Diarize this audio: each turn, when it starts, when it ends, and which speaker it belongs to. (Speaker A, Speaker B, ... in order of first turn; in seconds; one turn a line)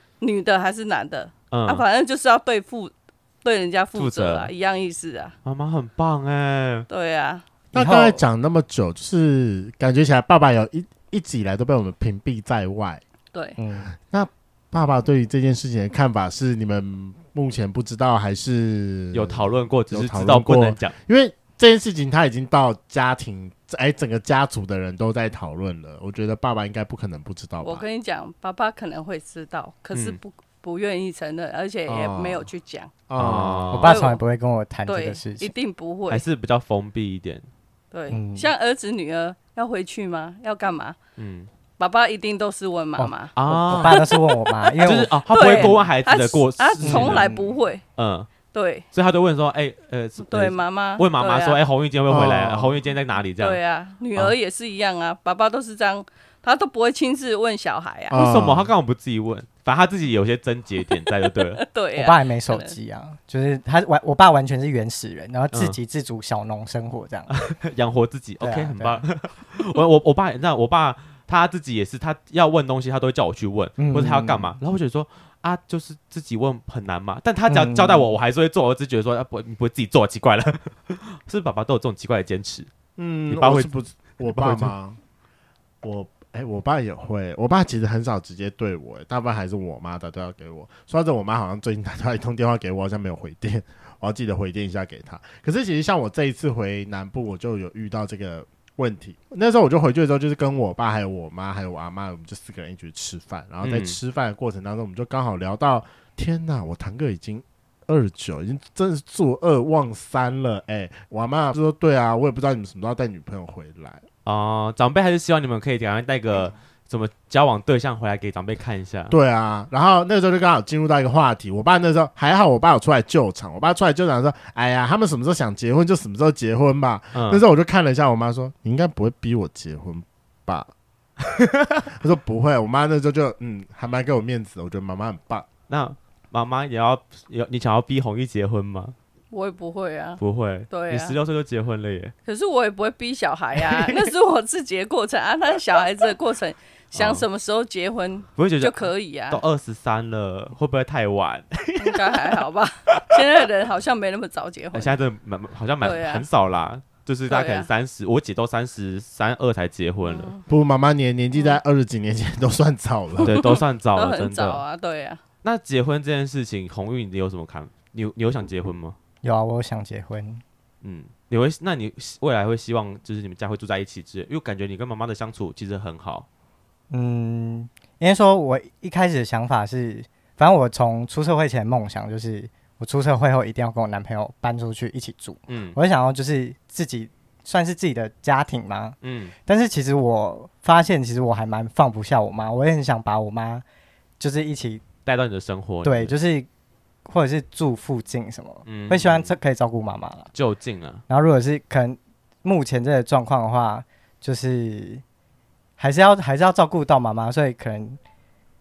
Speaker A: 0.2-2.9
Speaker B: 1.5-1.8
Speaker A: 3.4-5.3
Speaker B: 4.0-4.5
Speaker B: 5.4-6.9
Speaker A: 6.9-7.4
Speaker C: 7.7-13.0
Speaker D: 7.7-8.2
Speaker A: 13.3-13.6
Speaker D: 13.6-13.9
Speaker C: 14.1-27.8
Speaker B: 19.1-20.9
Speaker A: 27.6-32.9
Speaker C: 31.9-32.5
Speaker C: 33.1-33.8
Speaker B: 33.2-34.0
Speaker D: 33.7-35.5
Speaker A: 33.8-34.2
Speaker A: 34.9-36.2
Speaker B: 36.1-37.5
Speaker A: 37.9-41.0
Speaker D: 38.1-38.5
Speaker B: 41.2-41.5
Speaker A: 41.8-43.3
Speaker D: 43.0-45.8
Speaker B: 43.4-44.0
Speaker A: 43.8-44.8
Speaker B: 44.8-47.3
Speaker A: 45.3-47.8
Speaker D: 46.8-47.5
Speaker B: 48.0-48.3
Speaker A: 48.5-48.8
Speaker B: 48.9-53.6
Speaker A: 50.2-51.6
Speaker C: 52.1-52.8
Speaker A: 53.4-58.2
Speaker C: 58.1-58.7
Speaker B: 58.1-61.6
Speaker A: 61.2-62.7
Speaker D: 62.0-67.3
Speaker B: 65.5-65.8
Speaker B: 67.3-82.7
Speaker D: 68.4-69.0
Speaker D: 73.8-74.5
Speaker D: 77.5-78.1
Speaker C: 83.0-85.0
Speaker B: 83.3-83.7
Speaker B: 84.2-84.7
Speaker C: 85.8-114.0
Speaker B: 103.6-104.0
Speaker B: 114.2-119.1
Speaker C: 119.1-130.7
Speaker B: 127.1-127.4
Speaker B: 131.4-131.8
Speaker C: 131.9-135.4
Speaker B: 135.7-138.9
Speaker A: 139.3-141.2
Speaker B: 140.2-142.1
Speaker A: 142.2-149.4
Speaker B: 143.6-144.1
Speaker B: 146.9-147.2
Speaker B: 148.4-152.4
Speaker A: 151.8-155.0
Speaker B: 152.9-153.2
Speaker B: 154.7-160.3
Speaker A: 155.8-156.2
Speaker A: 157.3-157.7
Speaker A: 160.0-160.4
Speaker C: 160.5-163.3
Speaker B: 163.2-164.6
Speaker A: 163.3-165.2
Speaker B: 165.4-168.9
Speaker D: 169.2-170.4
Speaker B: 170.8-176.2
Speaker D: 176.9-193.6
Speaker B: 185.5-185.8
Speaker B: 189.0-189.3
Speaker D: 194.2-194.8
Speaker B: 195.1-196.1
Speaker D: 195.8-196.5
Speaker D: 197.1-200.3
Speaker B: 198.7-199.3
Speaker B: 200.3-201.0
Speaker D: 201.1-205.0
Speaker D: 205.8-208.0